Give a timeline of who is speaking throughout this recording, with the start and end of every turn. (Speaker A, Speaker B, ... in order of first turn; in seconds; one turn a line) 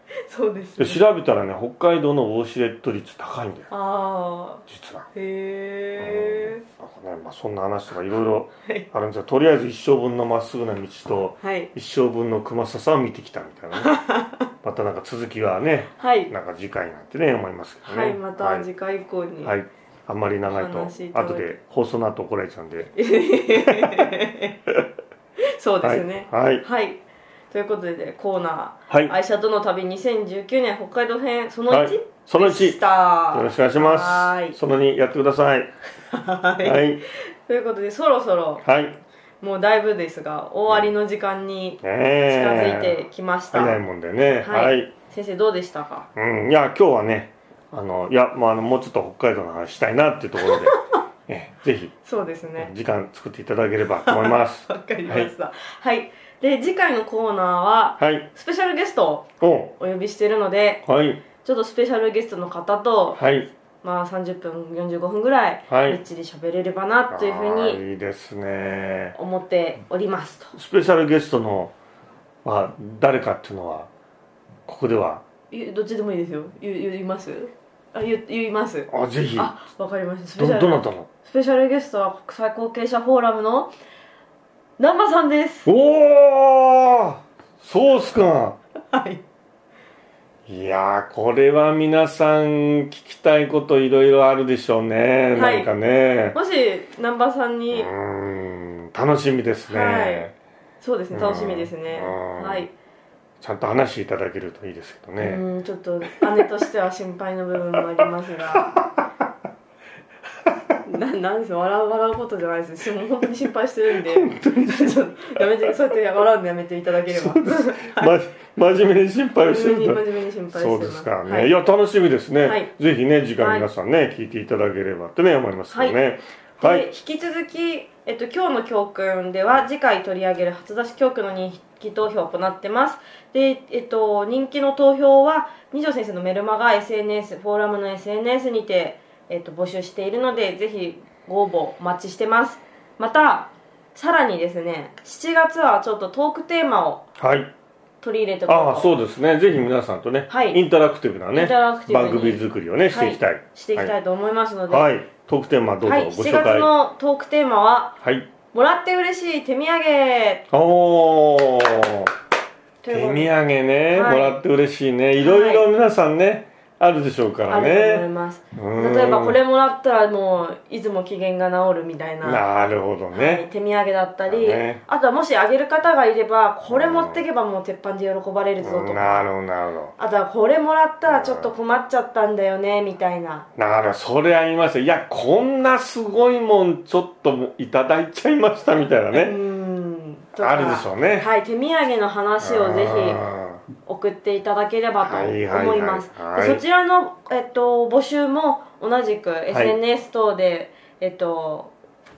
Speaker A: 0.2-1.0
Speaker B: 0.8-3.7
Speaker A: 3.7-6.6
Speaker B: 4.7-5.1
Speaker B: 6.0-14.0
Speaker A: 11.4-11.7
Speaker A: 13.8-14.5
Speaker B: 14.6-18.7
Speaker A: 16.0-16.3
Speaker A: 17.9-19.6
Speaker B: 19.4-22.9
Speaker A: 20.5-21.6
Speaker A: 22.9-24.6
Speaker B: 23.6-24.1
Speaker A: 25.4-34.6
Speaker B: 25.8-26.6
Speaker B: 31.7-35.7
Speaker A: 36.1-38.6
Speaker B: 36.6-37.0
Speaker B: 38.6-39.0
Speaker A: 39.4-43.8
Speaker B: 41.8-43.0
Speaker B: 43.5-44.9
Speaker A: 44.4-46.1
Speaker B: 46.1-52.0
Speaker A: 50.4-50.8
Speaker A: 52.0-52.7
Speaker B: 52.6-55.3
Speaker A: 54.0-59.3
Speaker B: 58.0-58.3
Speaker B: 59.4-59.7
Speaker A: 59.8-60.8
Speaker B: 60.9-61.2
Speaker A: 61.4-63.2
Speaker B: 63.2-63.5
Speaker A: 63.8-67.8
Speaker B: 65.7-66.0
Speaker B: 67.1-69.2
Speaker A: 69.2-70.5
Speaker B: 70.5-71.7
Speaker B: 72.4-73.9
Speaker B: 74.7-75.2
Speaker A: 75.5-83.7
Speaker B: 78.9-79.5
Speaker B: 80.4-81.1
Speaker A: 84.8-85.7
Speaker B: 85.7-88.6
Speaker A: 88.8-89.2
Speaker B: 90.5-96.4
Speaker A: 95.3-95.7
Speaker A: 96.3-97.9
Speaker B: 97.7-100.3
Speaker A: 99.7-100.3
Speaker A: 100.8-102.7
Speaker B: 101.1-102.7
Speaker B: 103.4-105.4
Speaker A: 105.2-108.7
Speaker B: 108.5-109.2
Speaker B: 110.5-110.8
Speaker A: 110.9-118.2
Speaker B: 114.0-115.7
Speaker B: 117.1-126.9
Speaker A: 119.4-121.5
Speaker A: 122.4-122.7
Speaker A: 123.4-123.7
Speaker A: 125.7-126.0
Speaker A: 126.6-147.1
Speaker B: 147.2-147.5
Speaker A: 148.0-148.9
Speaker B: 148.5-153.9
Speaker A: 150.3-150.6
Speaker A: 151.3-154.9
Speaker B: 154.7-156.7
Speaker A: 155.8-158.0
Speaker B: 158.0-158.3
Speaker A: 158.5-160.4
Speaker B: 160.5-162.1
Speaker A: 162.8-163.3
Speaker B: 162.9-169.4
Speaker A: 163.9-164.4
Speaker A: 165.2-165.6
Speaker A: 167.5-172.5
Speaker B: 172.2-173.5
Speaker A: 173.1-179.3
Speaker B: 174.3-174.8
Speaker B: 176.7-177.2
Speaker B: 178.6-179.9
Speaker A: 180.0-183.5
Speaker B: 181.1-181.5
Speaker B: 183.6-189.4
Speaker A: 189.1-193.2
Speaker B: 190.4-191.3
Speaker B: 192.4-193.6
Speaker A: 193.8-201.7
Speaker B: 195.0-196.6
Speaker B: 199.5-199.8